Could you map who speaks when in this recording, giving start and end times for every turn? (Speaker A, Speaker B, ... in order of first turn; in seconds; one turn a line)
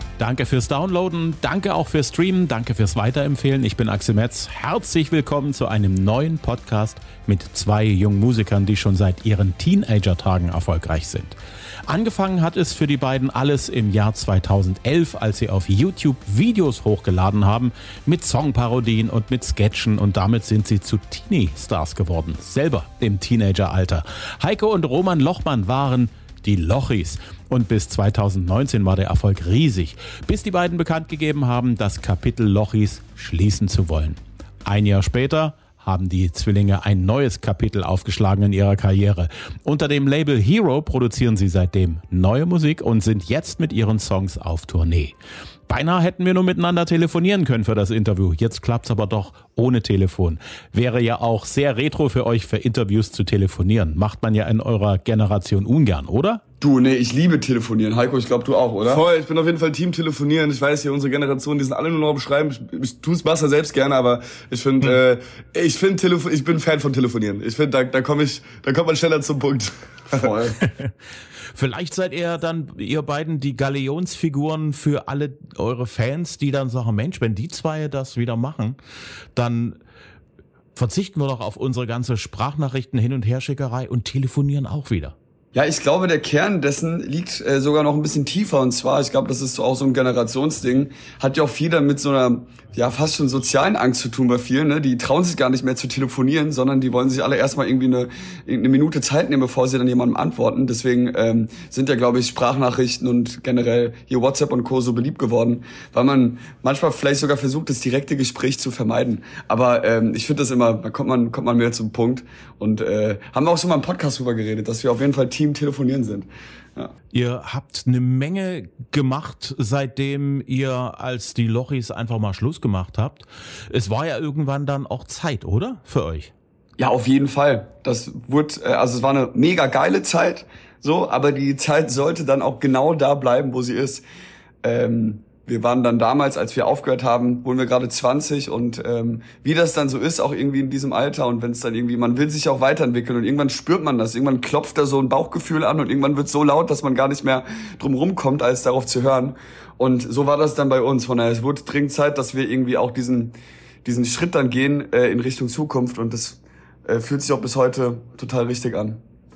Speaker A: 0.2-11.3
Speaker A: 11.9-45.1
Speaker A: 45.7-56.4
Speaker B: 56.6-59.0
Speaker C: 58.8-70.3
Speaker B: 70.1-70.6
Speaker A: 70.6-70.9
Speaker A: 71.5-78.8
Speaker A: 79.3-79.8
Speaker A: 80.8-85.1
Speaker B: 85.5-116.9
Speaker A: 117.1-126.3
Speaker B: 126.8-134.0
Speaker B: 134.6-159.0